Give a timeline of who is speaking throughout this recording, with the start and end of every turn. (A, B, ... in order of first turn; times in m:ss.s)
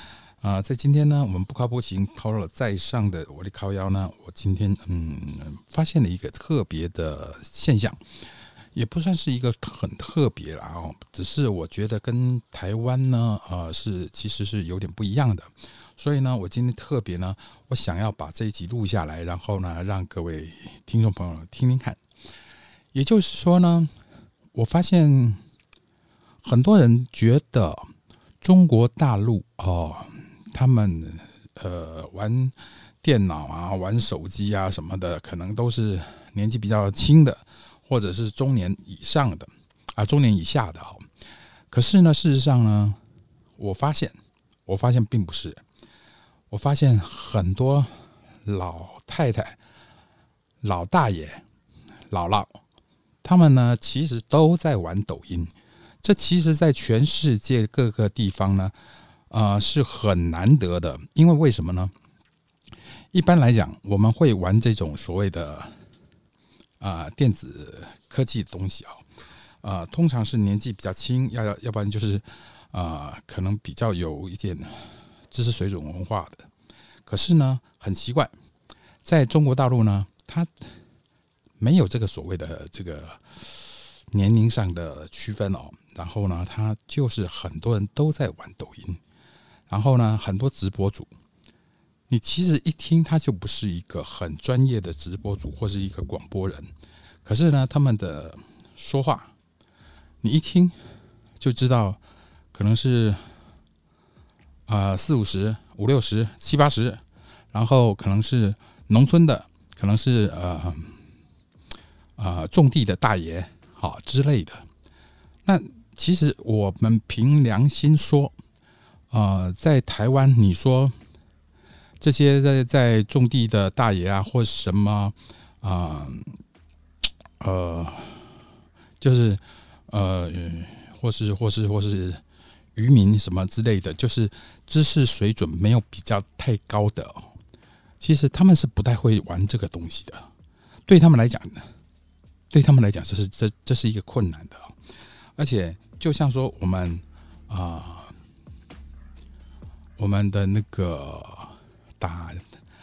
0:00.4-0:08.0 A
0:08.7-0:22.0 A
0:22.9-0:23.9 A
0:24.5-0:25.4 A
0:26.4-0:27.9 A
0:28.4-0:41.0 A
0:41.7-0:43.0 A
0:43.6-0:44.2 A
0:44.7-0:45.6 A
0:46.5-0:47.9 A
0:48.4-0:49.6 A
0:50.6-0:51.4 A
0:52.1-0:52.5 A
0:53.2-0:58.7 A
0:59.3-1:01.9 A
1:03.1-1:05.7 A
1:06.8-1:09.0 A
1:09.6-1:16.5 A
1:17.1-1:18.3 A
1:19.0-1:20.5 A
1:21.6-1:29.0 A
1:29.7-1:31.1 A
1:32.1-1:36.7 A
1:37.2-1:39.3 A
1:40.2-1:40.7 A
1:41.4-1:42.0 A
1:42.5-1:43.2 A
1:44.7-1:47.0 A
1:47.5-1:50.9 A
1:52.2-1:54.6 A
1:55.4-1:58.3 A
1:59.1-2:00.9 A
2:02.0-2:06.3 A
2:07.4-2:08.2 A
2:09.0-2:12.2 A
2:12.8-2:17.3 A
2:18.0-2:20.3 A
2:20.9-2:21.7 A
2:22.5-2:24.7 A
2:25.4-2:28.1 A
2:30.0-2:32.4 A